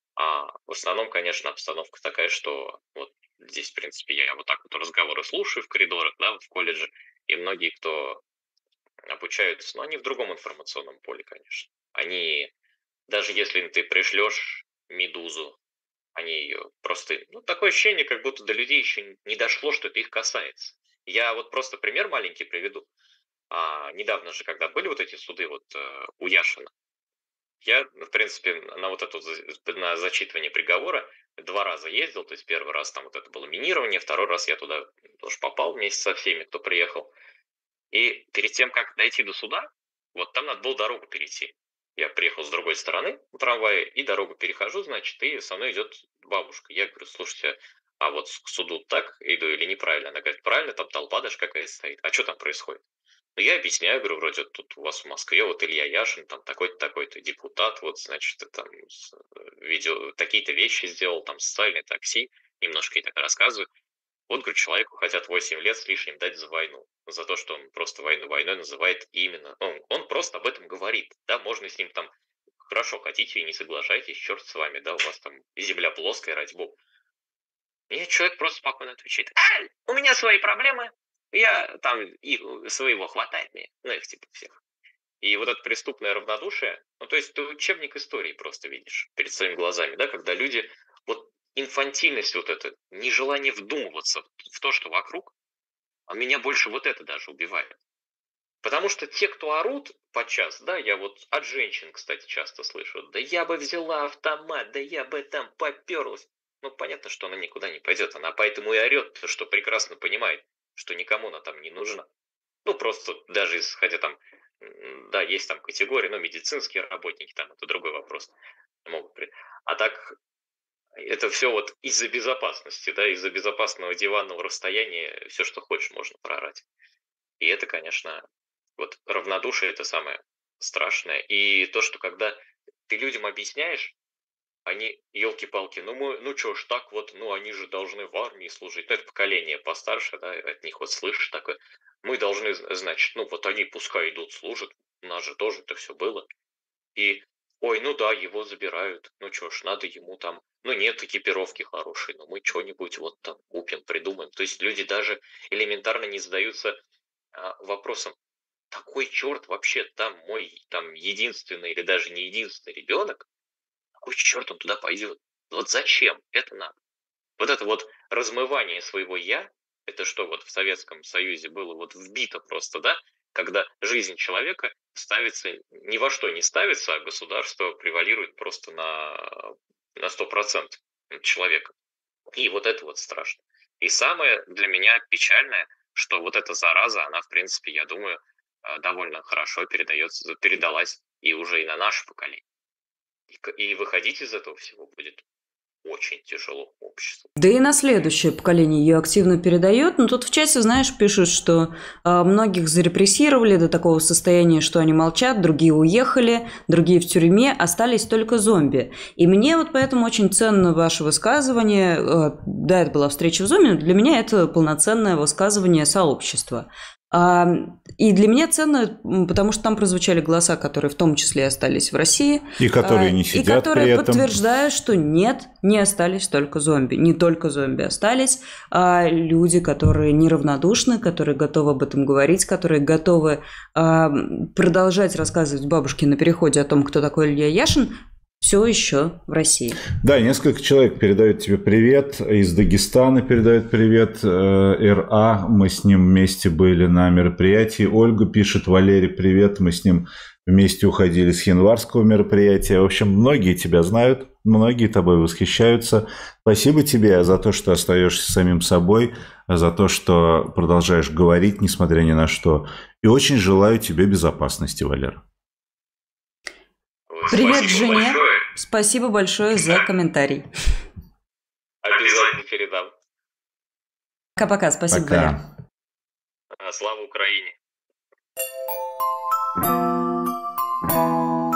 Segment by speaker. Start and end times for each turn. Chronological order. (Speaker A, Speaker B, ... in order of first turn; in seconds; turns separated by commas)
Speaker A: 0.2-8.2, Speaker A: 9.1-12.5, Speaker A: 13.1-15.6, Speaker A: 16.1-22.9, Speaker A: 23.5-26.7, Speaker A: 27.6-37.1, Speaker A: 37.9-52.8, Speaker A: 53.4-63.7, Speaker A: 64.3-72.1, Speaker A: 72.6-76.8, Speaker A: 77.9-84.6, Speaker A: 85.2-95.3, Speaker A: 96.1-97.8, Speaker A: 98.6-112.1, Speaker A: 112.6-118.3, Speaker A: 118.8-120.2, Speaker A: 121.0-126.6, Speaker A: 127.4-128.2, Speaker A: 128.8-132.4, Speaker A: 132.9-133.9, Speaker A: 134.7-146.3, Speaker A: 146.9-156.8, Speaker A: 157.3-158.2, Speaker A: 158.7-163.2, Speaker A: 164.0-166.8, Speaker A: 167.4-181.7, Speaker A: 182.3-192.4, Speaker A: 193.3-195.2, Speaker A: 195.8-197.3, Speaker B: 197.4-237.9, Speaker C: 222.6-224.3, Speaker B: 238.4-239.8, Speaker C: 240.0-265.2, Speaker A: 267.1-268.4, Speaker B: 267.3-270.4, Speaker A: 271.8-272.9, Speaker B: 274.4-275.3, Speaker C: 274.9-275.4, Speaker A: 276.6-277.5